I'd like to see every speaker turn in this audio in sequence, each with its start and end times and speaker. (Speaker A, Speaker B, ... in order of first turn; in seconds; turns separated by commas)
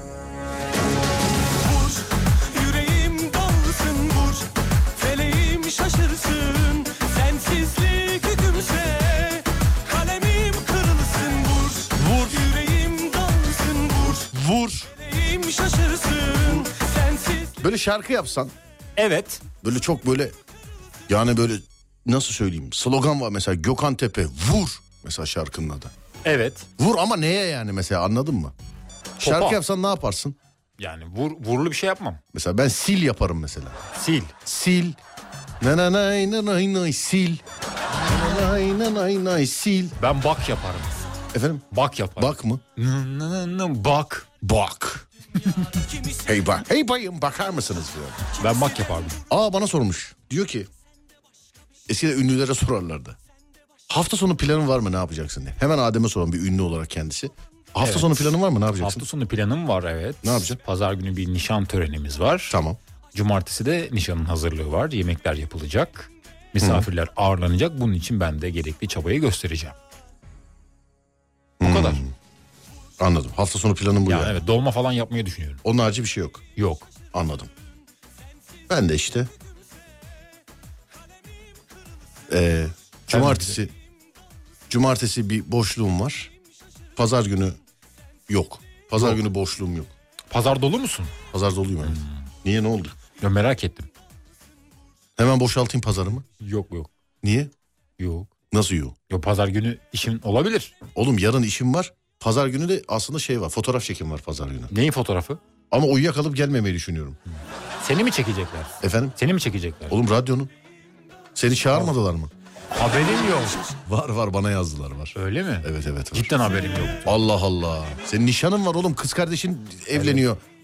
Speaker A: 1.5-14.3, Speaker B: 14.3-14.9, Speaker A: 14.9-17.5, Speaker B: 17.6-18.5, Speaker C: 19.0-19.4, Speaker B: 19.6-20.3, Speaker B: 21.1-25.9, Speaker C: 26.2-26.7, Speaker B: 26.8-28.5, Speaker C: 29.2-29.6, Speaker B: 29.2-30.4, Speaker C: 30.8-32.2, Speaker B: 32.3-33.8, Speaker C: 33.9-34.3, Speaker B: 34.4-35.0, Speaker B: 35.6-37.4, Speaker B: 38.0-40.0, Speaker C: 40.0-41.0, Speaker B: 41.3-42.6, Speaker C: 41.7-44.5, Speaker B: 44.4-45.0, Speaker A: 45.8-46.2, Speaker B: 46.2-48.2, Speaker C: 48.4-49.2, Speaker B: 49.3-50.7, Speaker B: 51.9-53.2, Speaker B: 53.9-59.0, Speaker C: 57.8-62.6, Speaker B: 60.2-60.6, Speaker B: 62.5-62.8, Speaker C: 63.1-69.8, Speaker B: 66.6-66.9, Speaker B: 71.6-72.1, Speaker C: 71.6-72.0, Speaker B: 73.0-74.4, Speaker C: 74.1-75.6, Speaker B: 75.6-76.5, Speaker C: 76.6-76.9, Speaker B: 77.1-77.5, Speaker B: 78.7-79.3, Speaker B: 82.3-83.7, Speaker C: 83.1-83.6, Speaker B: 84.7-86.3, Speaker B: 87.0-87.6, Speaker B: 88.3-89.9, Speaker C: 90.3-91.1, Speaker B: 91.3-93.0, Speaker C: 91.8-92.3, Speaker C: 93.2-93.9, Speaker B: 95.2-96.2, Speaker C: 96.4-96.9, Speaker B: 97.2-97.5, Speaker C: 98.0-98.3, Speaker B: 98.5-98.9, Speaker C: 99.1-100.7, Speaker B: 100.9-104.7, Speaker C: 104.7-105.4, Speaker B: 105.7-107.2, Speaker C: 107.8-109.9, Speaker B: 108.8-109.1, Speaker B: 109.9-110.5, Speaker B: 111.3-112.3, Speaker C: 112.7-113.7, Speaker B: 113.7-116.3, Speaker C: 115.2-117.2, Speaker B: 117.0-120.4, Speaker C: 119.9-120.2